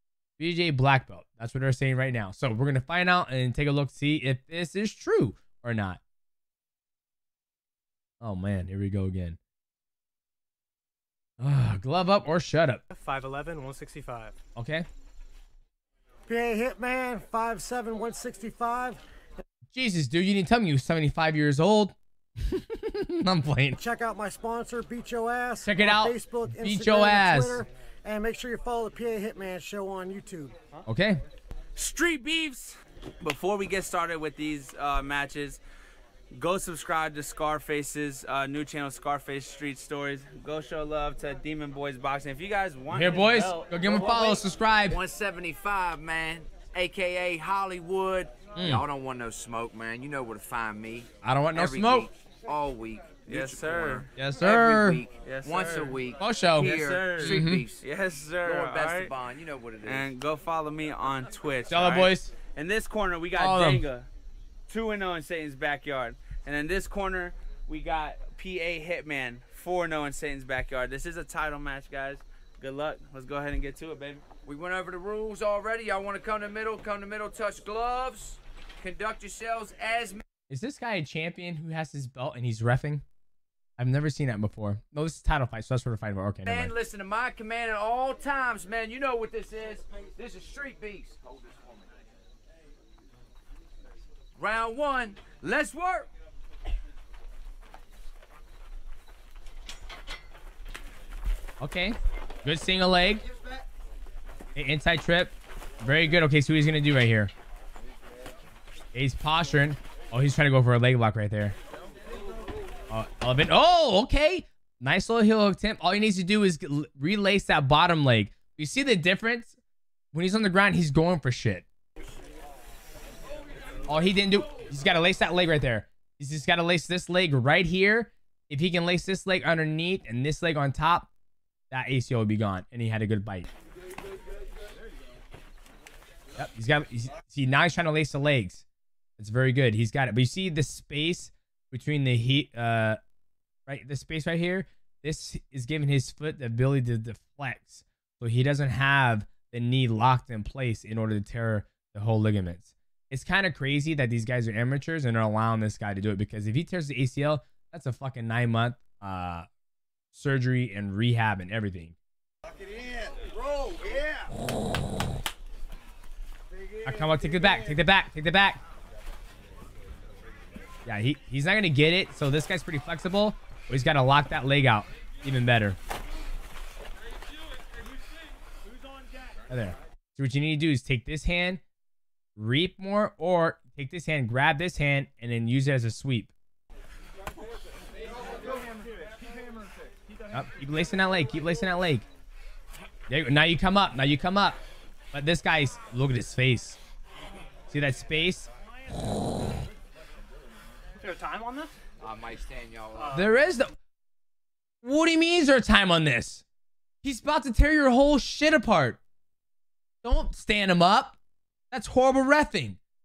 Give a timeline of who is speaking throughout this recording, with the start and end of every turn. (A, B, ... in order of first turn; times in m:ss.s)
0:00.4-0:06.0 A
0:08.2-0:09.4 A
0:11.4-0:12.8 A
0:12.9-0:14.3 B
0:14.5-0:14.8 A
0:16.3-0:19.0 C
0:19.7-0:23.8 A
0:23.8-0:30.5 C
0:25.6-0:27.6 A
0:30.8-0:31.2 A
0:31.7-0:35.6 D
0:36.3-0:44.0 D
0:42.9-0:45.0 A
0:44.0-0:57.8 E
0:48.6-0:48.8 A
0:51.2-0:52.1 A
0:53.2-0:54.0 D
0:54.2-0:55.0 A
0:55.2-0:56.0 D
0:56.2-0:57.6 A
0:56.6-0:59.2 D
0:58.4-1:00.1 E
0:59.8-1:04.1 D
1:01.7-1:02.3 A
1:03.3-1:03.9 A
1:04.7-1:14.2 D
1:14.4-1:20.2 E
1:20.5-1:23.0 A
1:23.8-1:26.7 A
1:26.4-1:31.9 E
1:34.4-1:36.1 E
1:41.6-1:43.2 A
1:44.6-1:47.3 A
1:48.9-1:51.6 A
1:52.9-1:59.6 A
2:00.1-2:01.6 A
2:03.9-2:11.1 A
2:11.7-2:13.5 A
2:16.4-2:18.6 A
2:19.2-2:23.0 A
2:23.7-2:39.5 A
2:40.1-2:42.0 A
2:46.8-2:48.6 A
2:50.8-2:55.8 A
2:59.5-3:01.6 A
3:02.4-3:06.3 A
3:10.3-3:12.0 A
3:13.1-3:14.6 A
3:15.1-3:16.8 A
3:17.7-3:18.5 A
3:21.0-3:21.7 B
3:22.0-3:23.3 E
3:23.1-3:23.7 A
3:24.8-3:26.4 A
3:27.0-3:29.0 A
3:30.0-3:31.2 A
3:31.7-3:32.8 A